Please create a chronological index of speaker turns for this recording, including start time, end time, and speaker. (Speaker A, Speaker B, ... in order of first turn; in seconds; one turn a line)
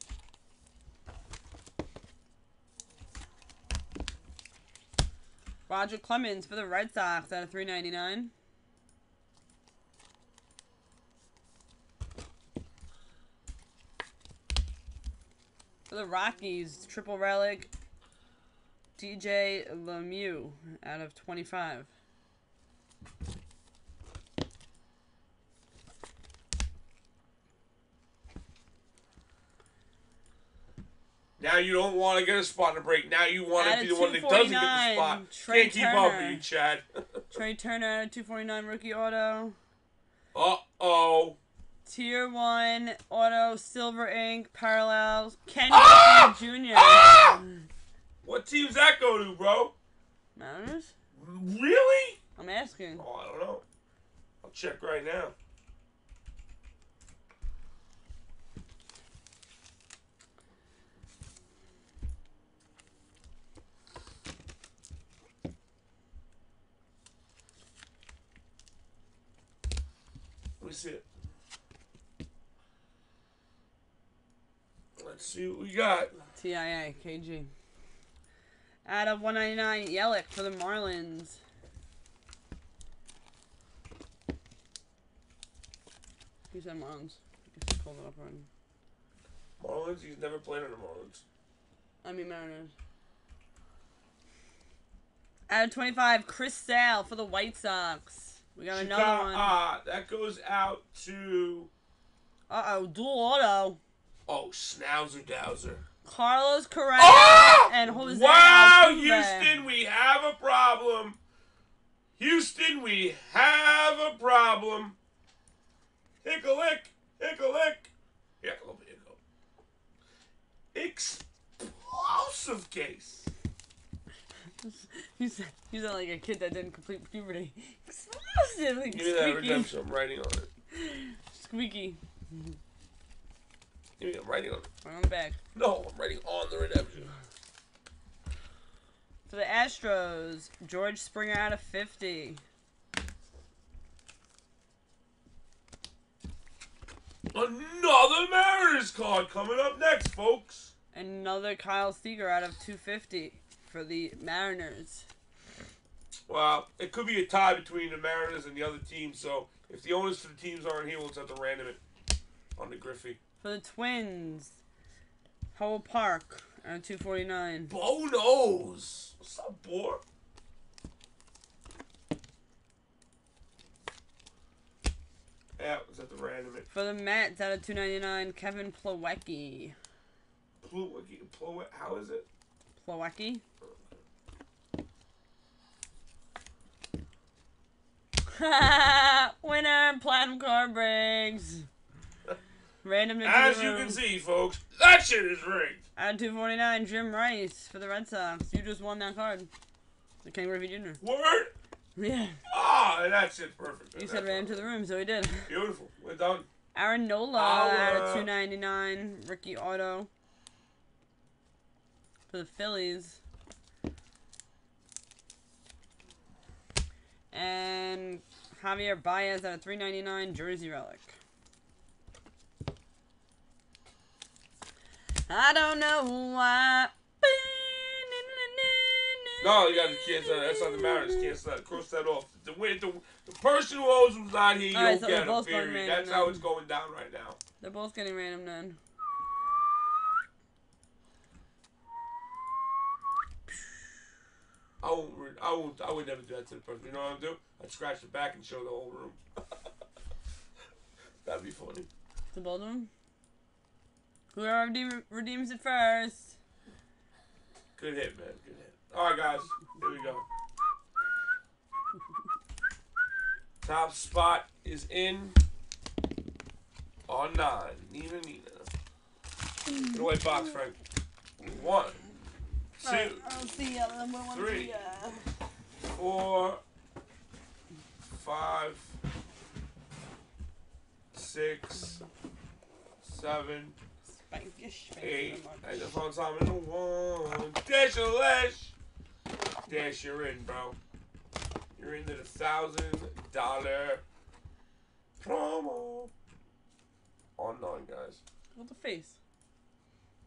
Speaker A: 5.7-8.3
Speaker A: 15.9-17.7
Speaker A: 18.9-21.9
Speaker B: 31.4-37.2
Speaker A: 33.5-36.4
Speaker A: 37.3-39.6
Speaker B: 40.3-41.4
Speaker A: 41.9-47.6
Speaker B: 45.7-47.4
Speaker B: 48.2-49.7
Speaker A: 50.4-50.9
Speaker B: 51.1-52.2
Speaker A: 52.4-53.0
Speaker B: 53.0-53.6
Speaker B: 54.4-55.3
Speaker B: 70.6-71.0
Speaker B: 75.0-76.3
Speaker A: 76.4-77.5
Speaker A: 78.8-81.4
Speaker A: 86.5-88.5
Speaker B: 89.6-91.2
Speaker A: 92.0-92.7
Speaker A: 95.5-99.5
Speaker B: 98.7-101.7
Speaker A: 102.5-103.8
Speaker B: 104.3-105.8
Speaker A: 106.0-109.7
Speaker B: 107.0-111.2
Speaker B: 112.2-115.0
Speaker B: 116.2-119.2
Speaker B: 120.7-123.3
Speaker A: 124.6-129.8
Speaker B: 128.9-130.5
Speaker A: 130.7-132.6
Speaker B: 134.0-134.7
Speaker A: 134.8-135.4
Speaker B: 135.5-137.1
Speaker A: 139.3-142.4
Speaker B: 147.3-150.7
Speaker A: 150.9-155.1
Speaker B: 156.3-161.8
Speaker B: 162.6-163.2
Speaker A: 163.4-164.6
Speaker A: 165.5-167.7
Speaker B: 167.7-170.0
Speaker B: 175.6-176.7
Speaker A: 176.7-179.8
Speaker B: 180.6-182.2
Speaker A: 182.8-183.4
Speaker A: 188.3-191.7
Speaker A: 192.8-194.0
Speaker B: 193.2-195.8
Speaker A: 196.0-199.5
Speaker A: 200.2-201.0
Speaker B: 201.0-201.5
Speaker A: 201.9-202.4
Speaker B: 202.5-204.7
Speaker A: 203.9-205.5
Speaker B: 205.5-206.4
Speaker A: 206.7-210.1
Speaker B: 207.3-208.3
Speaker A: 212.3-213.2
Speaker A: 217.3-221.2
Speaker A: 225.3-231.4
Speaker B: 229.4-237.4
Speaker A: 234.7-236.4
Speaker A: 237.6-238.8
Speaker B: 244.8-249.2
Speaker B: 251.2-251.9
Speaker A: 252.3-252.9
Speaker A: 254.3-256.4
Speaker B: 257.8-260.2
Speaker B: 263.6-265.4
Speaker B: 267.1-268.7
Speaker A: 269.7-270.3
Speaker B: 269.8-270.8
Speaker B: 271.4-272.0
Speaker B: 272.8-273.2
Speaker A: 272.8-275.3
Speaker B: 274.3-274.8
Speaker B: 275.9-276.6
Speaker B: 278.1-279.0
Speaker B: 281.1-282.0
Speaker B: 283.0-283.8
Speaker A: 284.0-286.0
Speaker B: 285.0-288.7
Speaker B: 289.7-290.8
Speaker B: 291.8-294.0
Speaker B: 295.2-296.1
Speaker B: 297.4-298.2
Speaker A: 298.5-299.2